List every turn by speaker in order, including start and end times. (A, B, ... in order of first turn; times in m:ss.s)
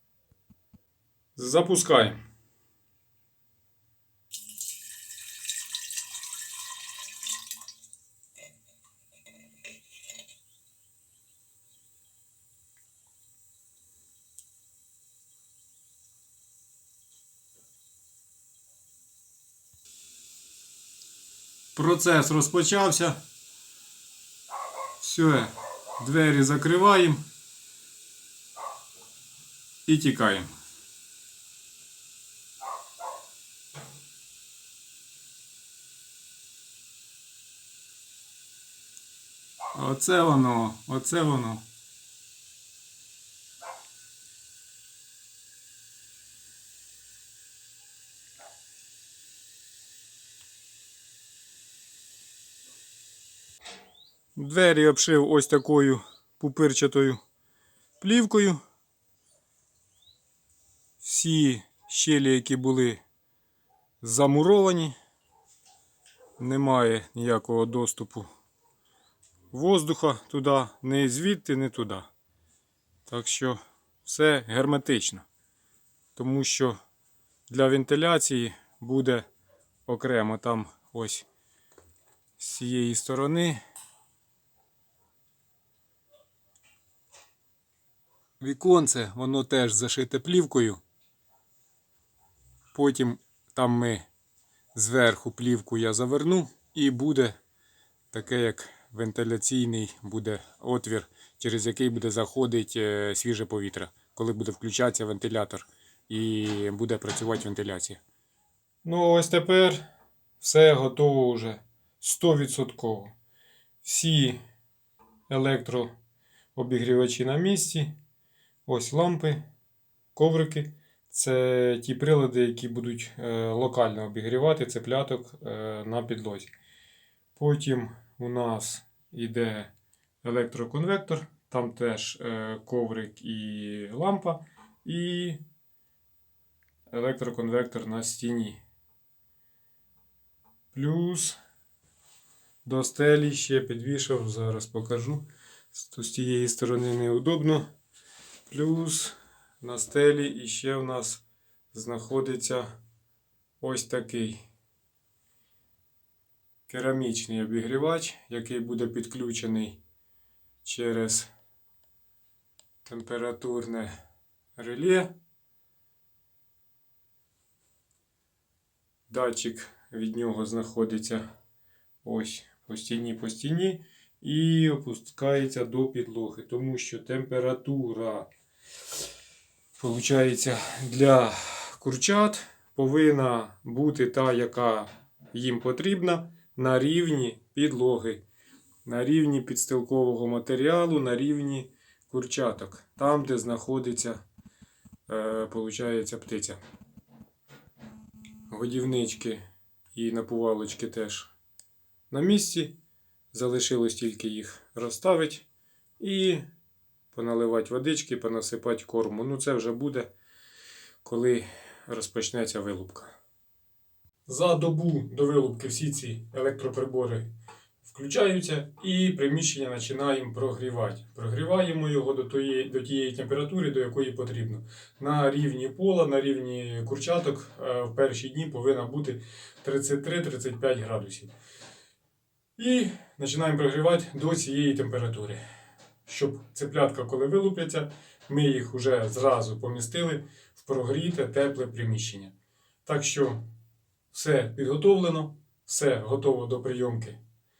0:01.4-0:02.2 A
0:21.7-0:23.2 A
0:25.0-0:27.2 A
0:29.9-0:30.5 A
0:39.7-0:41.6 A
0:54.4-0:57.2 A
0:58.0-0:58.6 A
1:01.0-1:03.0 A
1:04.0-1:04.9 A
1:06.4-1:08.3 A
1:09.5-1:12.1 A
1:13.1-1:15.3 A
1:16.2-1:16.8 A
1:17.5-1:19.3 A
1:19.9-1:21.3 A
1:22.4-1:23.6 A
1:28.4-1:30.8 A
1:32.7-1:34.1 A
1:34.7-1:37.4 A
1:38.1-1:48.0 A
1:48.8-1:49.8 A
1:50.4-1:53.1 A
1:53.8-1:54.4 A
1:55.3-1:55.9 A
1:56.5-1:57.9 A
1:58.6-1:59.4 A
2:00.1-2:06.5 A
2:07.4-2:09.7 A
2:10.2-2:15.4 A
2:16.9-2:18.6 A
2:20.7-2:21.4 A
2:22.6-2:27.7 A
2:28.5-2:32.8 A
2:33.6-2:34.4 A
2:36.7-2:39.8 A
2:40.6-2:41.3 A
2:42.8-2:43.9 A
2:44.5-2:45.1 A
2:49.1-2:51.2 A
2:52.0-2:58.3 A
2:59.8-3:08.2 A
3:08.8-3:14.2 A
3:15.1-3:16.6 A
3:18.5-3:19.4 A
3:19.9-3:21.3 A
3:22.1-3:22.7 A
3:23.3-3:25.4 A
3:26.0-3:26.4 A
3:27.1-3:30.1 A
3:31.0-3:33.1 A
3:34.2-3:37.3 A
3:37.8-3:51.3 A
3:52.6-3:55.4 A
3:56.0-4:02.3 A
4:02.8-4:03.5 A
4:04.1-4:07.2 A